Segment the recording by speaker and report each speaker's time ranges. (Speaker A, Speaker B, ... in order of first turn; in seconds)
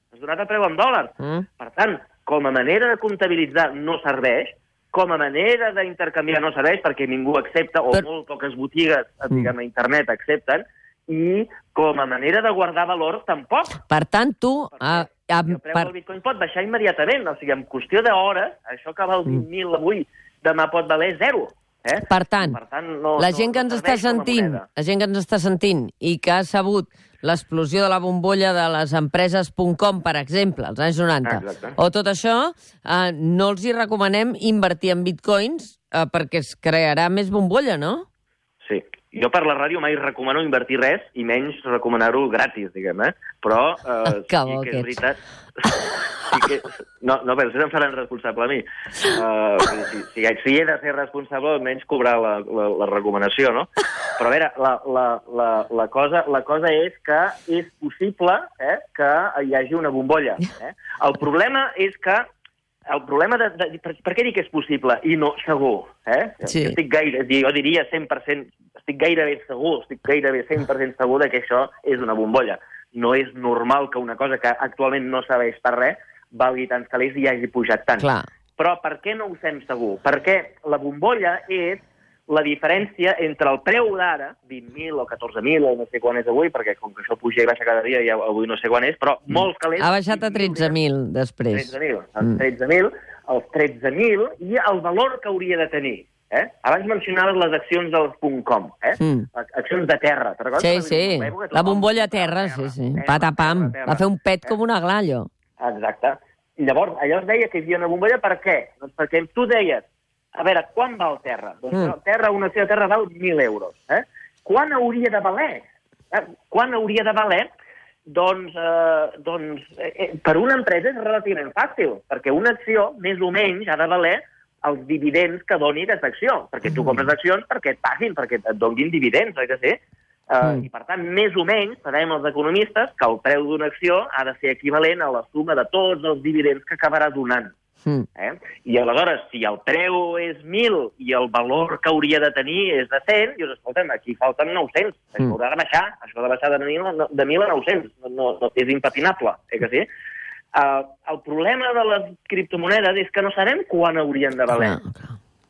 Speaker A: 0.1-13.8, 14.8-24.6, 31.2-31.8, 38.6-62.2, 62.9-90.7, 91.5-104.5, 105.6-117.5, 118.1-137.5, 138.2-149.9, 150.5-154.8
Speaker B: 1.2-1.4, 13.9-15.9, 22.0-22.6, 23.2-38.1, 44.1-45.0, 66.5-66.8, 78.0-78.3, 89.8-91.7, 99.0-99.3, 100.6-105.3, 154.5-155.2